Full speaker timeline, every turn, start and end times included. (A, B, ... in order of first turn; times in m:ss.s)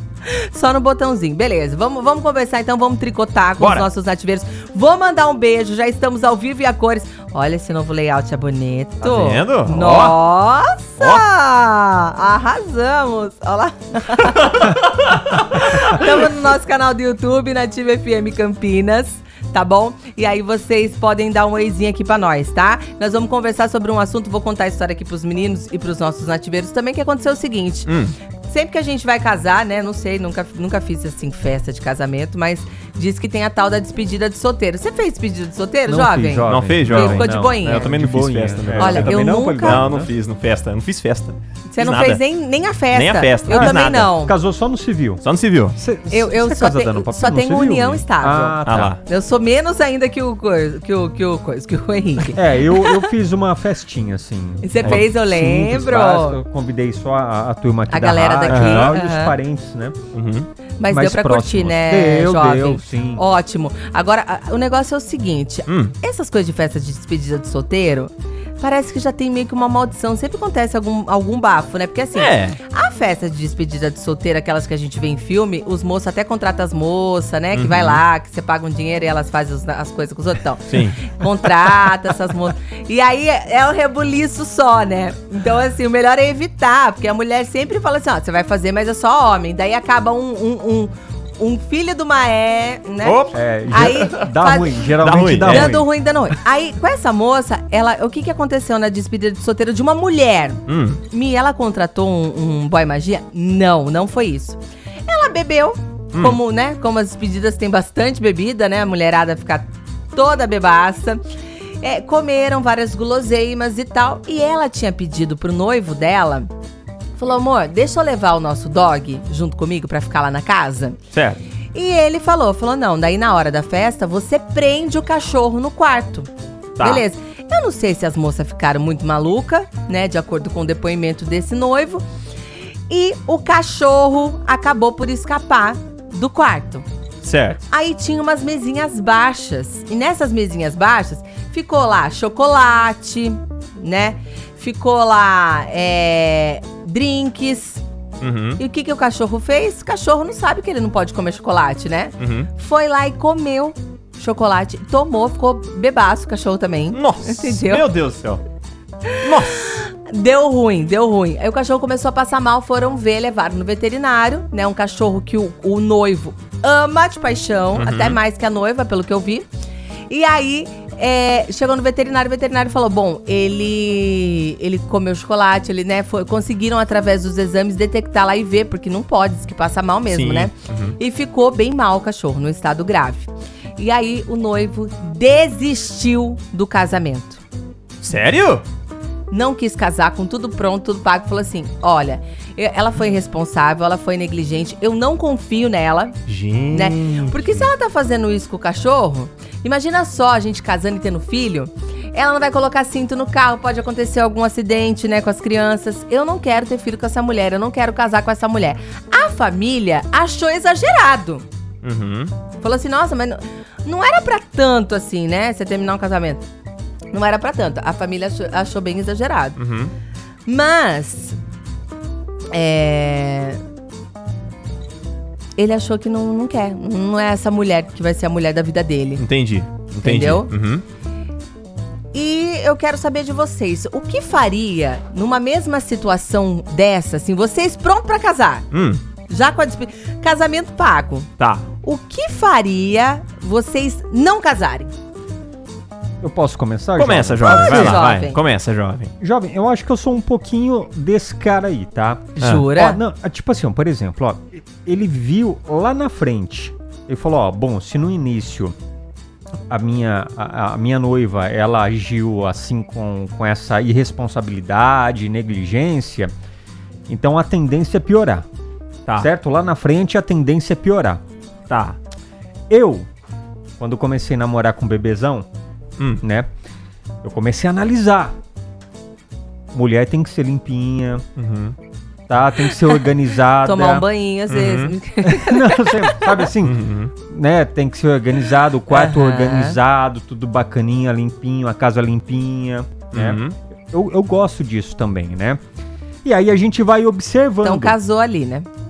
0:00.3-0:14.8 A
0:03.6-0:03.9 B
0:09.0-0:10.2 B
0:14.4-0:15.4 B
0:15.3-0:27.9 A
0:27.9-0:28.1 B
0:28.5-0:37.9 A
0:35.9-0:40.1 C
0:36.5-0:42.2 B
0:38.7-0:39.9 A
0:41.7-0:44.3 A
0:42.9-0:44.1 B
0:43.5-0:45.2 C
0:45.2-0:45.8 B
0:45.7-0:49.0 C
0:46.1-0:53.1 A
0:48.6-0:49.0 B
0:52.4-1:00.0 C
0:54.6-0:56.4 A
0:57.9-0:59.4 A
0:58.5-0:59.0 B
1:00.1-1:00.5 B
1:00.8-1:34.9 A
1:00.9-1:03.2 C
1:05.7-1:05.9 B
1:12.2-1:12.6 B
1:17.5-1:18.0 B
1:20.7-1:21.2 B
1:33.0-1:34.2 B
1:33.3-1:35.9 C
1:35.0-1:35.8 B
1:35.4-1:51.2 A
1:40.7-1:41.0 B
1:51.8-1:56.5 A
1:57.2-2:01.0 A
2:01.1-2:01.4 B
2:01.7-2:06.3 A
2:06.8-2:07.0 B
2:06.8-2:12.0 A
2:12.9-2:16.9 A
2:17.2-2:17.6 B
2:17.7-2:27.8 A
2:28.2-2:28.6 B
2:28.6-2:37.9 A
2:32.2-2:32.5 B
2:36.9-2:38.4 B
2:39.1-2:49.5 A
2:39.2-2:39.8 B
2:47.7-2:48.2 B
2:50.1-3:07.4 A
3:00.1-3:01.0 B
3:08.0-3:08.6 B
3:09.3-3:16.2 A
3:16.3-3:17.7 B
3:16.7-3:31.5 A
3:31.8-3:32.3 B
3:32.6-3:36.4 A
3:37.1-3:39.6 A
3:39.6-3:39.9 B
3:40.5-3:41.4 A
3:42.5-3:43.6 A
3:45.6-3:49.2 A
3:49.2-3:50.8 B
3:50.0-3:50.5 A
3:52.1-3:58.7 A
3:58.7-3:59.0 B
3:59.3-4:01.3 A
4:01.4-4:01.6 B
4:01.8-4:04.9 A
4:06.2-4:08.1 C
4:07.0-4:09.1 B
4:07.4-4:08.4 A
4:09.2-4:18.8 C
4:12.4-4:13.0 A
4:19.7-4:26.3 C
4:27.1-4:28.5 C
4:29.2-4:31.2 C
4:31.7-4:32.0 B
4:32.7-4:33.1 C
4:33.8-4:35.5 C
4:36.2-4:36.5 C
4:37.2-4:38.3 C
4:39.7-4:41.2 C
4:41.4-4:41.8 B
4:42.3-4:44.1 C
4:43.6-4:46.3 A
4:44.5-4:45.0 B
4:45.2-4:53.4 C
4:46.6-4:47.1 B
4:48.9-4:49.8 A
4:53.1-4:53.6 B
4:53.9-4:55.6 C
4:56.2-4:58.0 C
4:57.6-4:58.7 A